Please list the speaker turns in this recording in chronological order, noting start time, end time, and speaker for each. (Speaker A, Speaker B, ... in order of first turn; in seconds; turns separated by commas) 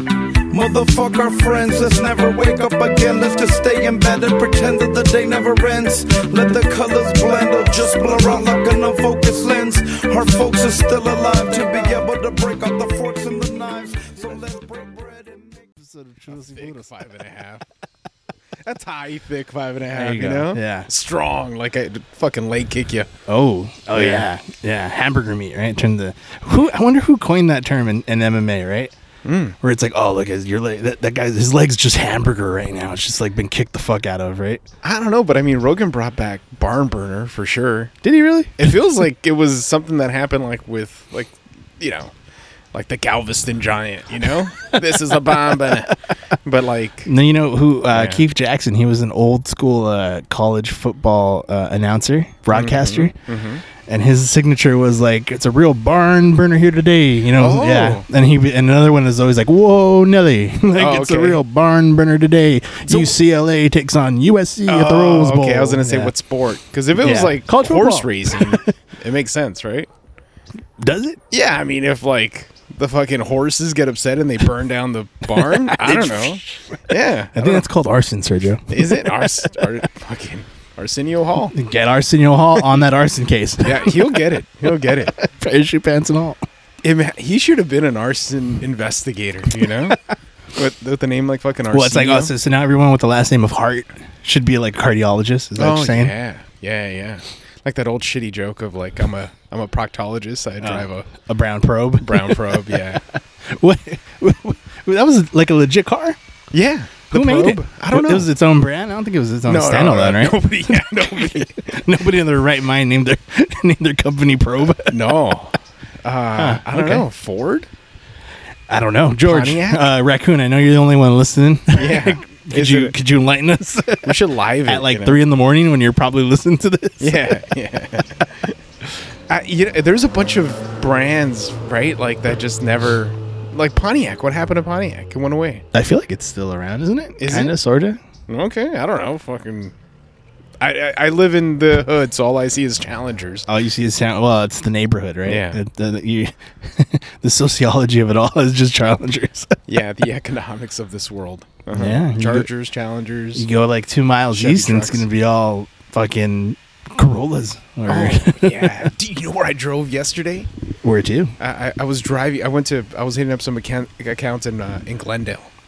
Speaker A: 0.5-15.6, Speaker B: 15.6-16.9, Speaker C: 16.3-17.6, Speaker C: 18.6-23.1, Speaker B: 19.9-20.9, Speaker B: 23.3-28.9, Speaker C: 23.9-24.3, Speaker C: 29.2-29.6, Speaker B: 29.6-34.6, Speaker C: 34.8-37.9, Speaker B: 38.0-38.7, Speaker C: 38.6-42.1, Speaker C: 42.7-47.1, Speaker B: 44.7-45.9, Speaker B: 47.1-53.2, Speaker C: 47.9-48.2, Speaker C: 52.5-53.6, Speaker B: 53.8-66.1, Speaker C: 57.4-58.1, Speaker C: 60.8-61.4, Speaker C: 62.9-63.2, Speaker C: 64.7-69.9, Speaker B: 67.0-68.6, Speaker B: 70.8-71.2, Speaker C: 71.3-77.7, Speaker B: 75.3-76.8, Speaker B: 77.3-79.5, Speaker C: 78.7-81.5, Speaker B: 81.5-84.2, Speaker C: 83.6-85.2, Speaker B: 84.8-86.4, Speaker C: 86.8-90.0, Speaker B: 89.6-90.0, Speaker C: 90.5-92.3, Speaker B: 91.7-96.1, Speaker C: 95.6-101.1, Speaker B: 100.6-106.2, Speaker C: 102.0-103.0, Speaker C: 106.5-108.3, Speaker B: 107.1-115.0, Speaker C: 109.5-111.9, Speaker C: 114.9-117.7, Speaker B: 116.4-117.1, Speaker B: 118.7-127.4, Speaker C: 119.3-119.9, Speaker C: 121.8-123.0, Speaker C: 124.0-125.2, Speaker C: 127.0-128.6, Speaker C: 129.3-135.7, Speaker B: 135.7-138.0, Speaker C: 137.2-137.6, Speaker C: 138.3-139.7, Speaker C: 140.6-143.5, Speaker B: 143.5-149.6, Speaker C: 145.2-145.6, Speaker C: 149.7-153.5, Speaker B: 151.7-152.5, Speaker B: 153.4-158.9, Speaker C: 154.3-155.1, Speaker C: 157.9-160.5, Speaker B: 160.8-161.3, Speaker C: 161.4-165.5